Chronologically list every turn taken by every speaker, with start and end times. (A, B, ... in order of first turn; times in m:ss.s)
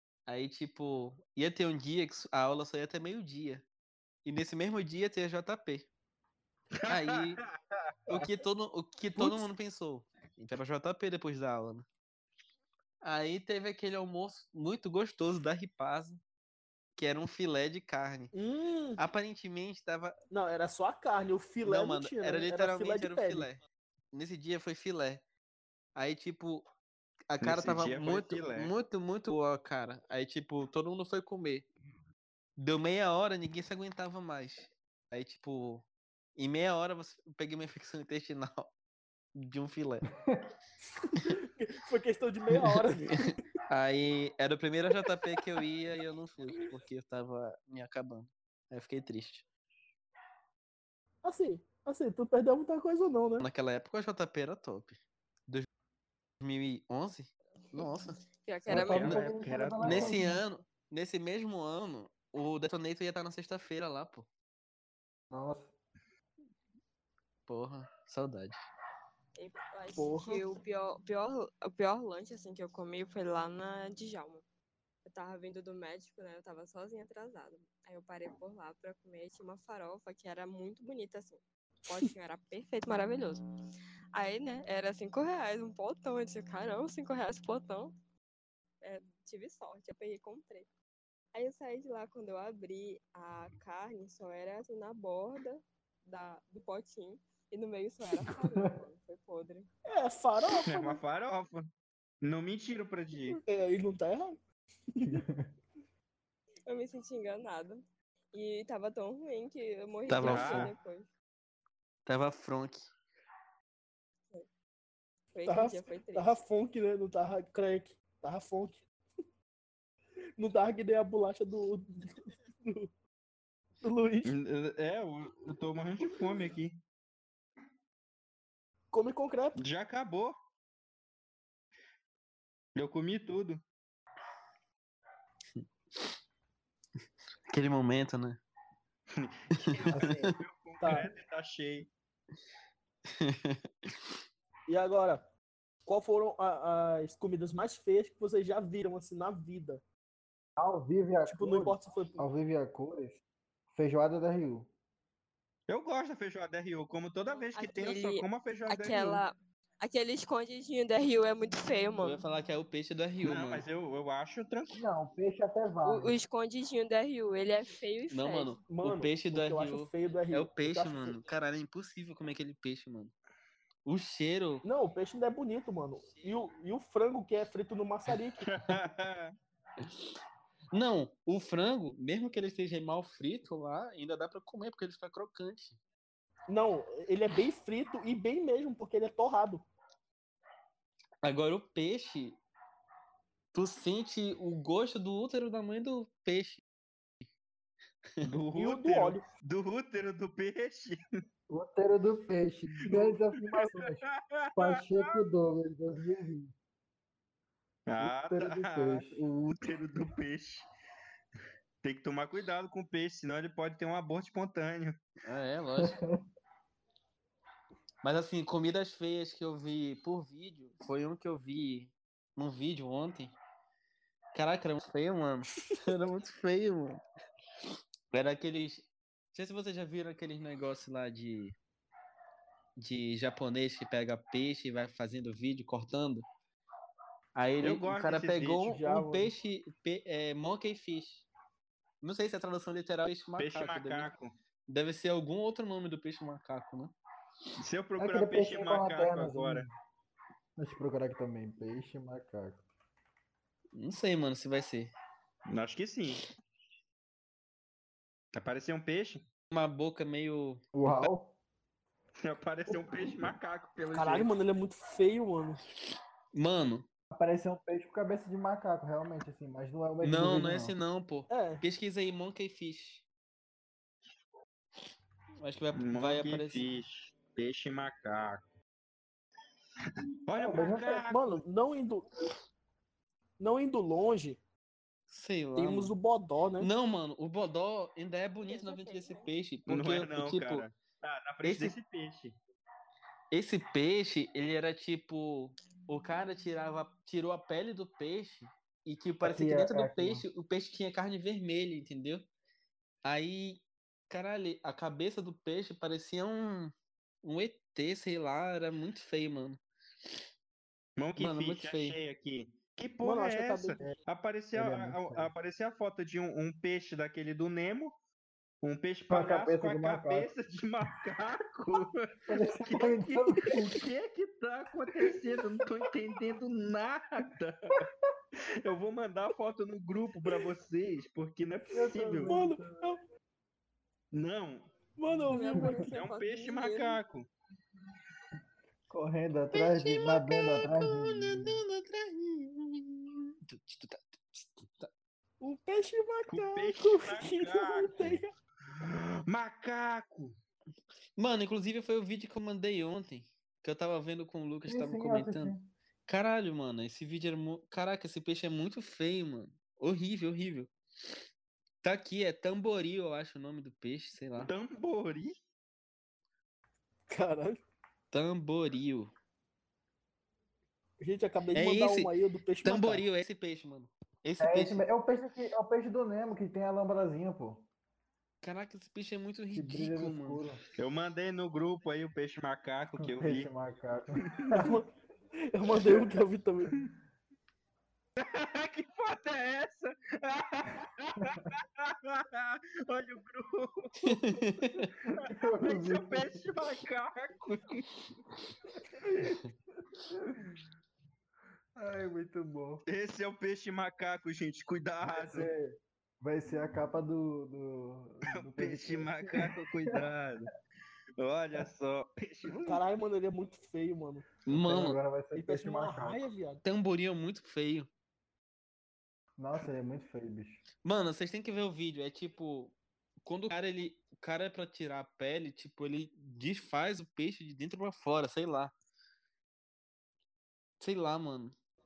0:00.3-0:03.6 A
0:04.2-0:05.9 A
0:06.8-0:07.5 B
0:06.8-0:07.4 A
0:08.1-0:11.8 A
0:13.0-0:16.2 A
0:17.0-0:18.3 A
0:18.3-0:19.0 C
0:19.0-0:20.2 A
0:20.3-0:23.5 C
0:21.6-0:23.6 A
0:24.1-0:25.2 A
0:26.0-0:26.6 A
0:27.3-0:31.7 A
0:27.4-0:28.7 B
0:32.6-0:35.8 A
0:36.4-0:38.7 A
0:39.3-0:40.1 A
0:40.2-0:40.5 D
0:41.0-0:43.3 C
0:42.5-0:49.4 A
0:45.1-0:45.4 C
0:51.2-0:53.5 C
0:53.4-0:55.7 A
0:56.4-0:58.2 A
0:57.8-0:59.1 E
0:58.7-1:00.4 D
0:58.7-0:59.2 A
0:58.7-1:00.2 B
0:59.8-1:04.2 A
1:05.3-1:05.7 D
1:07.5-1:08.6 A
1:09.4-1:14.4 E
1:10.0-1:10.4 C
1:15.0-1:23.4 E
1:24.1-1:27.9 E
1:28.8-1:30.7 E
1:31.3-1:39.7 E
1:38.2-1:38.7 D
1:39.9-1:41.0 C
1:40.6-1:41.7 B
1:42.2-1:43.4 B
1:43.3-1:44.4 C
1:45.0-1:45.2 C
1:45.0-1:45.5 D
1:46.7-1:47.8 E
1:48.3-1:51.1 E
1:50.1-1:50.7 A
1:50.2-1:50.7 B
1:52.0-1:52.9 A
1:55.3-1:56.3 E
1:55.4-1:58.8 C
2:00.4-2:02.9 C
2:03.8-2:04.3 C
2:04.2-2:06.8 B
2:08.9-2:09.6 C
2:09.6-2:10.3 B
2:12.7-2:13.6 B
2:15.5-2:16.1 A
2:17.5-2:18.4 A
2:19.1-2:21.9 B
2:19.6-2:20.3 A
2:19.9-2:20.3 D
2:20.8-2:21.1 C
2:23.1-2:24.0 A
2:24.7-2:25.3 C
2:25.8-2:29.8 C
2:30.6-2:33.2 D
2:31.3-2:32.2 C
2:33.7-2:34.7 D
2:35.7-2:39.2 B
2:37.2-2:42.2 E
2:42.0-2:43.6 A
2:43.2-2:44.8 B
2:44.7-2:46.1 D
2:45.8-2:48.7 E
2:48.1-2:53.1 A
2:48.7-2:51.2 C
2:53.8-2:54.6 A
2:54.6-2:58.5 C
2:58.5-2:59.3 B
2:59.8-3:00.1 A
3:00.7-3:05.8 A
3:06.5-3:09.6 C
3:11.2-3:12.4 A
3:13.5-3:16.6 A
3:18.2-3:21.0 B
3:18.5-3:19.2 C
3:21.5-3:26.5 D
3:22.9-3:25.2 B
3:27.9-3:30.7 B
3:28.0-3:29.4 D
3:31.8-3:35.0 B
3:35.2-3:36.0 A
3:35.8-3:36.2 D
3:38.0-3:43.3 A
3:44.3-3:47.0 A
3:48.1-3:51.6 A
3:52.8-3:56.2 A
3:57.4-4:01.2 A
3:57.6-3:58.6 B
3:58.6-3:59.3 C
4:02.0-4:04.1 A
4:03.4-4:04.3 B
4:04.7-4:06.9 A
4:07.6-4:09.6 B
4:08.0-4:09.7 D
4:10.6-4:12.6 D
4:13.7-4:14.9 A
4:15.5-4:16.2 B
4:18.3-4:19.2 B
4:19.5-4:21.1 A
4:20.7-4:21.4 D
4:22.2-4:24.3 B
4:23.9-4:25.6 C
4:26.3-4:26.8 A
4:27.1-4:30.8 D
4:30.0-4:33.0 A
4:31.3-4:31.6 C
4:35.4-4:36.6 A
4:35.7-4:38.4 B
4:40.2-4:41.4 B
4:40.4-4:41.0 D
4:41.1-4:42.1 C
4:43.4-4:44.4 C
4:45.1-4:45.9 A
4:45.6-4:46.7 C
4:46.6-4:50.7 A
4:48.4-4:49.3 E
4:49.7-4:52.4 B
4:51.4-4:51.8 A
4:53.3-5:02.3 A
4:59.2-5:00.2 D
5:03.0-5:09.6 A
5:11.0-5:17.9 B
5:11.2-5:12.0 A
5:13.0-5:13.8 C
5:14.5-5:15.3 D
5:18.6-5:27.8 B
5:19.1-5:20.3 D
5:22.3-5:23.8 D
5:25.0-5:25.4 D
5:28.4-5:32.3 B
5:31.7-5:32.9 D
5:32.2-5:33.0 C
5:34.1-5:34.7 B
5:35.0-5:35.8 C
5:35.2-5:35.9 D
5:35.3-5:37.0 E
5:35.9-5:37.3 B
5:38.9-5:41.6 D
5:39.6-5:44.9 A
5:45.4-5:48.3 C
5:46.3-5:48.2 B
5:48.7-5:50.4 B
5:51.2-5:55.5 A
5:54.7-5:55.7 D
5:56.1-6:00.7 A
6:01.8-6:04.5 A
6:04.4-6:05.4 B
6:07.1-6:07.6 C
6:08.1-6:09.1 A
6:11.0-6:13.0 C
6:11.5-6:12.1 A
6:12.6-6:14.8 A
6:14.4-6:17.7 D
6:18.4-6:20.4 A
6:19.5-6:20.6 D
6:20.8-6:23.5 B
6:23.0-6:24.8 D
6:24.5-6:24.8 C
6:25.5-6:26.7 C
6:28.2-6:34.3 B
6:34.0-6:34.9 A
6:35.0-6:36.5 D
6:35.2-6:38.0 B
6:38.9-6:39.4 D
6:40.0-6:40.6 D
6:41.8-6:42.8 D
6:42.8-6:45.5 B
6:45.0-6:50.0 D
6:48.3-6:50.5 B
6:51.2-6:52.8 B
6:52.6-6:54.3 C
6:54.5-6:55.0 A
6:54.5-6:56.2 D
6:55.3-6:56.6 C
6:56.6-6:57.9 A
6:59.4-7:00.6 D
7:00.8-7:08.7 A
7:10.8-7:11.5 A